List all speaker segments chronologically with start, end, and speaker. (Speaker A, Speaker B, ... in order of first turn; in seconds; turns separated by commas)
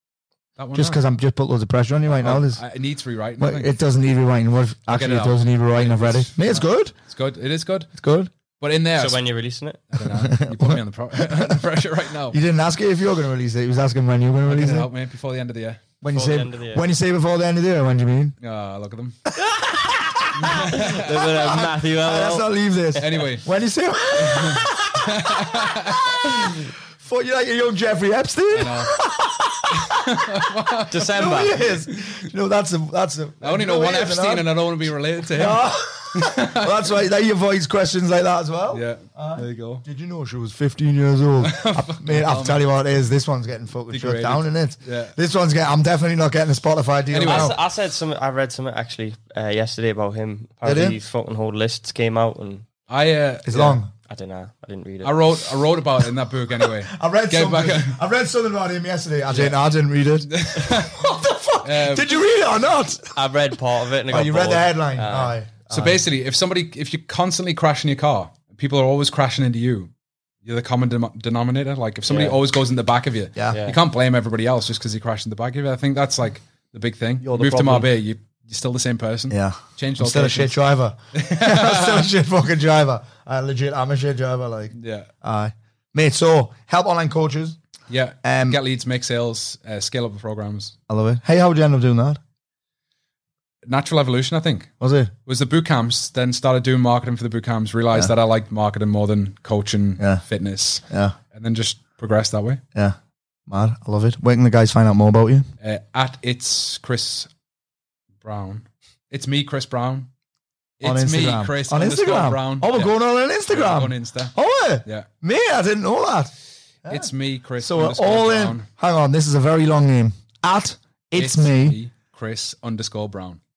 Speaker A: 0.6-1.0, Speaker B: 0.7-2.6, Speaker A: 2.1-3.7, Speaker B: 3.4-6.9, Speaker A: 4.9-7.9, Speaker B: 8.0-8.3, Speaker A: 8.6-9.2, Speaker C: 8.9-9.8, Speaker A: 9.9-12.4, Speaker B: 10.0-11.6, Speaker B: 12.3-14.9, Speaker A: 14.5-15.8, Speaker B: 16.0-18.3, Speaker C: 16.1-16.8, Speaker A: 18.4-19.3, Speaker B: 19.3-30.3, Speaker A: 20.3-21.6, Speaker C: 20.7-22.5, Speaker A: 23.0-23.5, Speaker A: 24.1-26.6, Speaker A: 28.5-29.0, Speaker A: 29.7-32.2, Speaker C: 30.9-31.6, Speaker B: 31.1-34.7, Speaker A: 33.4-36.9, Speaker B: 35.3-47.6, Speaker A: 38.7-39.8, Speaker A: 41.4-42.6, Speaker A: 43.9-45.1, Speaker A: 47.1-47.5, Speaker C: 47.2-52.6, Speaker B: 50.6-51.0, Speaker A: 52.9-53.8, Speaker B: 53.5-53.9, Speaker C: 54.1-55.2, Speaker A: 55.0-58.0, Speaker B: 56.8-63.1, Speaker A: 60.3-61.0, Speaker A: 61.6-62.1, Speaker C: 63.1-65.3, Speaker B: 64.1-66.0, Speaker A: 65.7-69.9, Speaker A: 70.4-80.5, Speaker C: 72.1-72.4, Speaker C: 73.5-73.8, Speaker C: 77.3-77.6, Speaker B: 77.3-77.9, Speaker B: 79.3-87.6, Speaker A: 81.1-82.1, Speaker A: 84.8-85.1, Speaker A: 87.9-90.7, Speaker B: 88.2-88.6, Speaker B: 90.9-92.2, Speaker A: 93.7-94.7, Speaker B: 94.8-95.1, Speaker A: 95.2-102.6, Speaker B: 100.9-101.1, Speaker B: 103.5-105.5, Speaker A: 105.6-107.3, Speaker A: 108.2-110.1, Speaker A: 110.8-112.9, Speaker B: 110.8-116.3, Speaker A: 113.5-114.3, Speaker B: 116.8-121.8, Speaker A: 116.9-118.7, Speaker A: 121.1-123.4